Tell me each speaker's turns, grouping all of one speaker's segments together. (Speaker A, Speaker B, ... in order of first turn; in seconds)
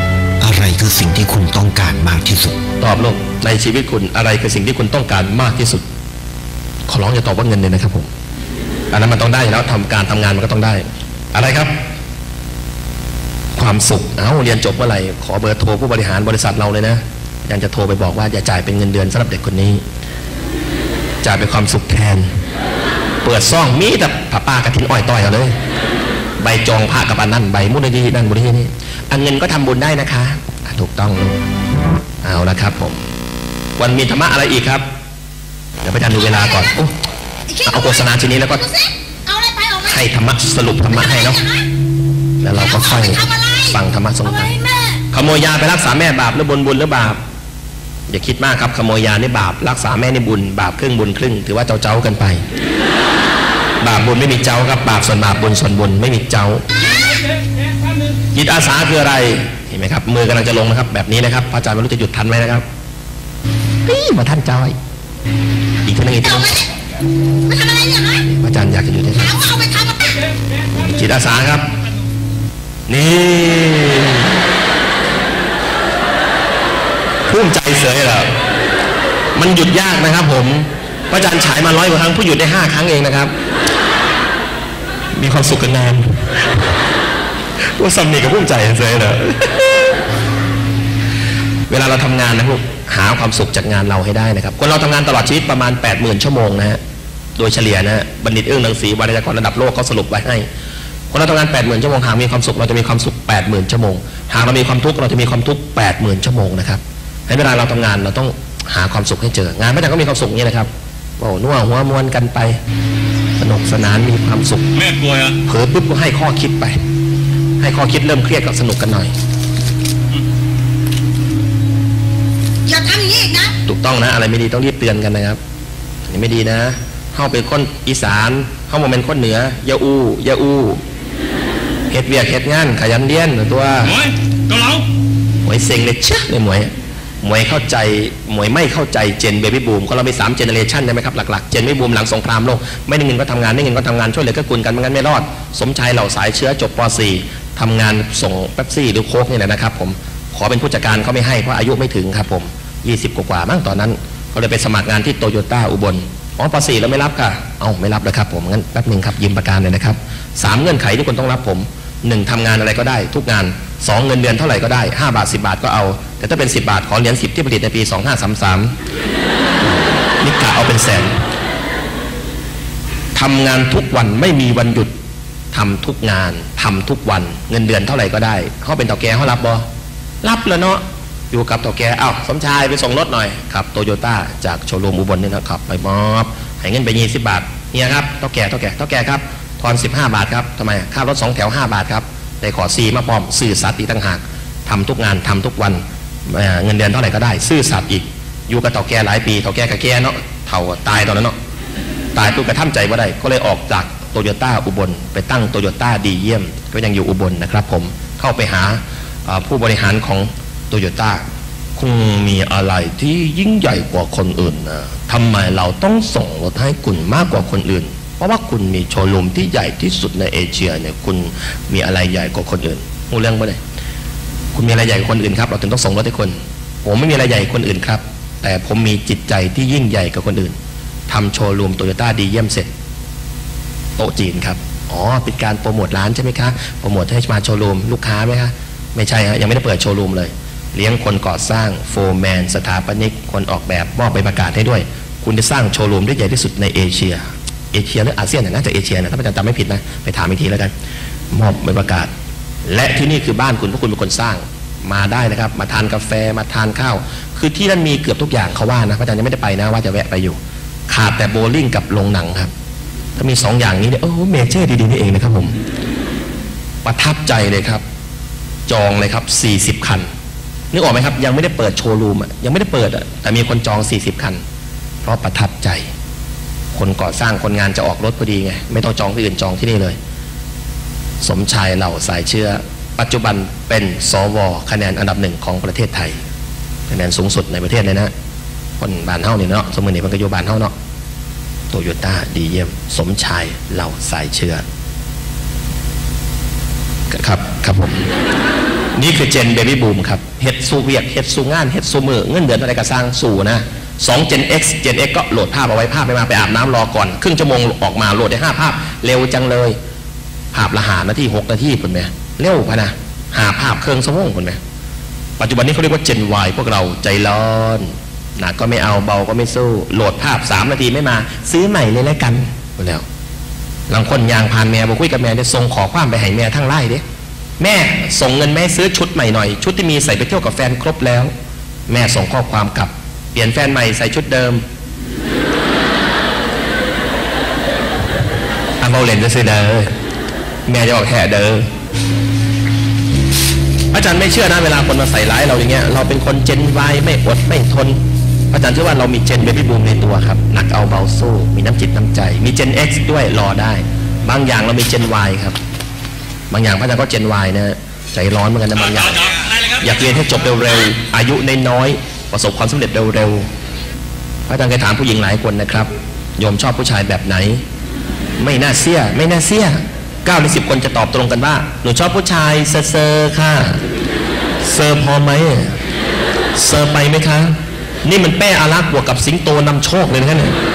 Speaker A: 0.4-2.6
Speaker B: 2.8-5.8, 6.9-8.1, 8.9-11.7, 13.6-19.8, 21.2-22.3, 23.2-25.6, 26.4-31.4, 32.2-33.0, 33.8-34.9, 35.8-36.9, 37.6-38.8, 39.8-41.5, 42.4-44.6, 45.1-47.2, 48.1-52.4, 53.8-56.9, 58.3-62.6, 63.9-64.8, 65.8-66.7, 68.1-69.6, 70.7-71.7, 72.9-74.3, 77.3-78.3, 79.4-83.3, 85.2-86.7, 87.8-90.0, 91.7-96.8, 97.4-100.5, 101.1-112.6, 113.4-114.8, 115.4-116.8, 117.6-119.1, 123.7-125.4, 126.1-130.8, 131.9-134.0, 135.4-136.7, 137.2-168.7, 169.6-171.2, 173.2-174.9, 175.5-179.7, 180.2-201.3, 202.2-211.2, 211.8-223.6, 224.5-230.6, 231.1-232.7, 234.0-250.7, 251.3-252.1, 252.7-260.4, 260.9-262.5, 263.2-265.6, 266.8-267.8, 268.7-270.1, 270.7-274.4, 275.0-275.9, 276.7-280.0, 281.2-286.2, 286.9-288.1, 288.8-290.7, 291.7-294.6, 297.1-298.0, 299.0-309.8, 310.5-314.6, 315.4-323.0, 323.9-327.0, 327.6-331.3, 331.9-334.6, 338.8-339.9, 340.7-341.7, 343.9-348.0, 348.5-355.6, 356.5-363.5, 364.5-367.6, 368.4-373.8, 374.6-375.8, 376.6-380.6
Speaker C: 38.8-39.8, 43.1-43.5, 44.6-45.0, 67.5-68.2, 69.5-70.2, 122.7-123.5
Speaker D: 114.8-115.4, 134.0-134.9, 359.2-359.8